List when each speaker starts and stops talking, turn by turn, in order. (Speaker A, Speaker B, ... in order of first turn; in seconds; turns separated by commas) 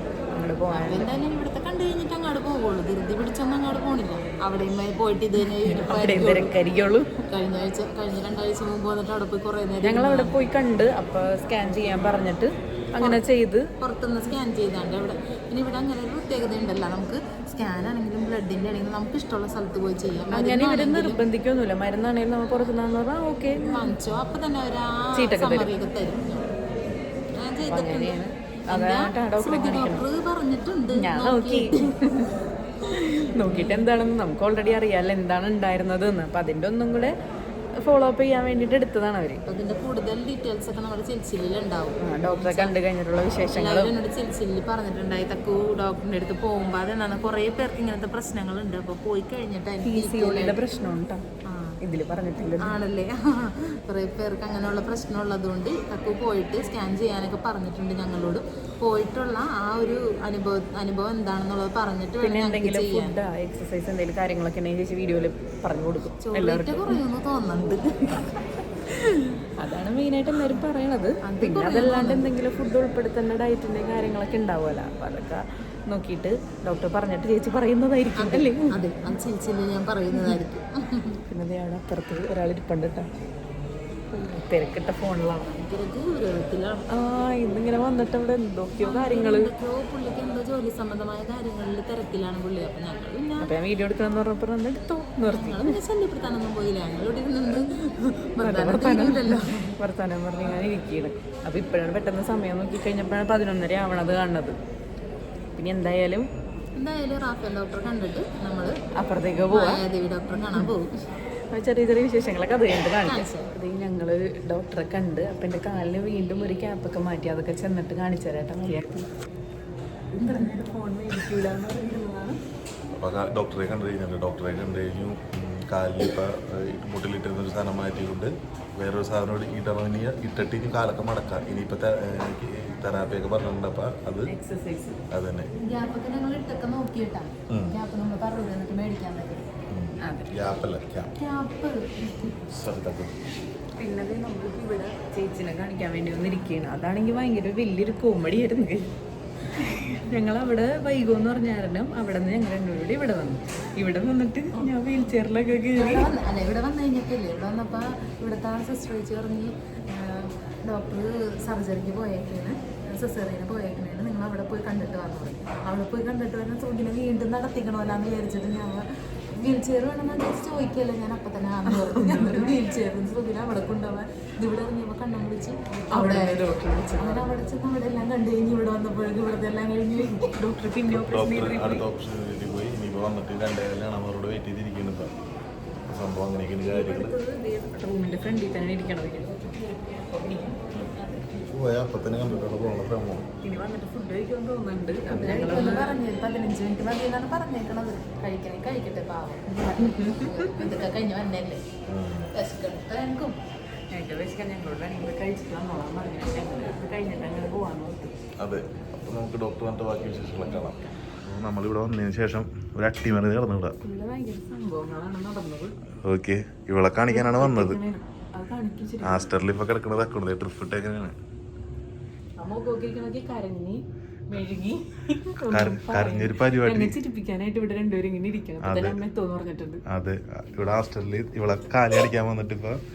Speaker A: 0.3-1.1, Speaker B: 0.7-6.5, Speaker A: 5.6-7.1, Speaker B: 7.3-10.3, Speaker A: 9.8-13.7, Speaker B: 13.8-21.2, Speaker A: 20.3-23.9, Speaker B: 23.6-26.5, Speaker A: 25.1-25.7, Speaker B: 27.3-31.9, Speaker A: 27.7-30.0, Speaker A: 30.9-32.3, Speaker A: 32.9-37.1, Speaker B: 33.3-33.9, Speaker A: 37.8-39.4, Speaker B: 39.5-42.7, Speaker A: 42.0-43.9, Speaker B: 43.5-50.6, Speaker A: 49.8-51.2, Speaker B: 51.5-51.8, Speaker A: 51.8-52.8, Speaker B: 52.6-63.1, Speaker A: 62.2-67.0, Speaker B: 66.2-68.3, Speaker A: 68.9-78.8, Speaker B: 71.2-72.3, Speaker B: 78.2-81.2, Speaker A: 80.1-80.4, Speaker A: 81.3-83.1, Speaker A: 84.1-85.5, Speaker B: 85.5-86.8, Speaker A: 86.9-89.5, Speaker B: 88.8-93.5, Speaker A: 93.4-95.8, Speaker B: 95.2-99.7, Speaker A: 98.4-104.6, Speaker A: 105.5-106.3, Speaker B: 106.8-108.7, Speaker A: 109.0-109.8, Speaker B: 109.5-110.9, Speaker A: 111.5-119.1, Speaker B: 113.0-113.5, Speaker A: 120.1-122.4, Speaker C: 123.0-134.3, Speaker A: 134.3-135.0, Speaker C: 135.1-135.5, Speaker B: 135.6-139.4, Speaker C: 137.5-137.8, Speaker C: 139.7-141.1, Speaker A: 140.0-140.3, Speaker B: 141.1-142.4, Speaker C: 142.5-143.2, Speaker A: 143.8-148.9, Speaker A: 149.5-156.1, Speaker B: 155.8-176.4, Speaker A: 171.7-172.6, Speaker A: 175.9-177.3, Speaker B: 176.9-180.3, Speaker A: 180.0-181.8, Speaker C: 180.9-185.1, Speaker C: 185.9-187.1, Speaker A: 186.7-190.6, Speaker C: 190.8-193.2, Speaker A: 193.4-195.9, Speaker B: 195.1-201.6, Speaker A: 199.5-200.7, Speaker C: 201.9-202.3, Speaker B: 202.3-203.3, Speaker A: 203.9-208.1, Speaker C: 208.4-213.7, Speaker A: 213.8-215.7, Speaker C: 216.0-217.8, Speaker A: 217.1-219.3, Speaker C: 219.0-221.1, Speaker A: 222.4-229.8, Speaker C: 225.5-226.9, Speaker C: 228.6-229.0, Speaker C: 229.9-232.8